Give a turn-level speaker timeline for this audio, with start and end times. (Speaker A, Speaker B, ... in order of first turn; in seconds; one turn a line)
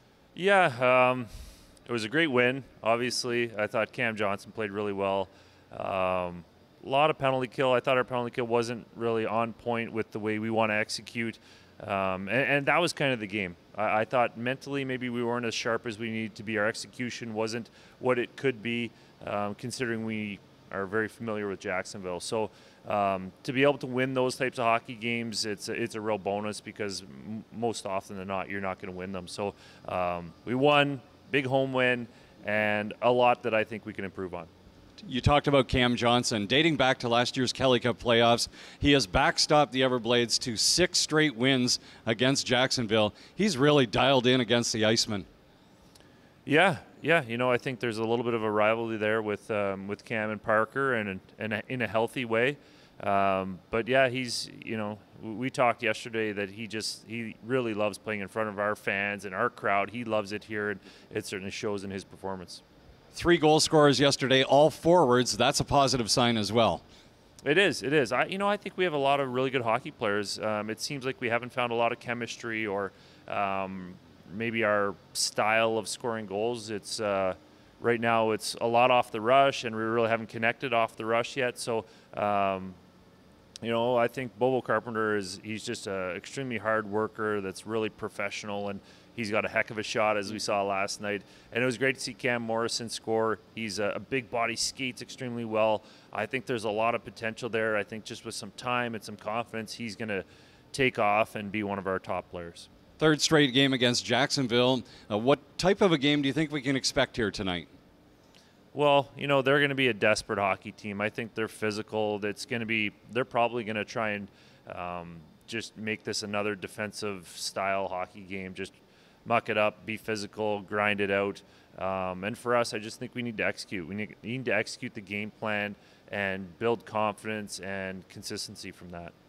Speaker A: 0.3-1.3
Speaker A: 1.9-34.5
Speaker B: 35.0-45.3
Speaker A: 46.5-62.6
Speaker B: 63.1-66.8
Speaker A: 67.4-82.8
Speaker A: 83.6-102.7
Speaker B: 103.0-107.7
Speaker A: 108.7-129.1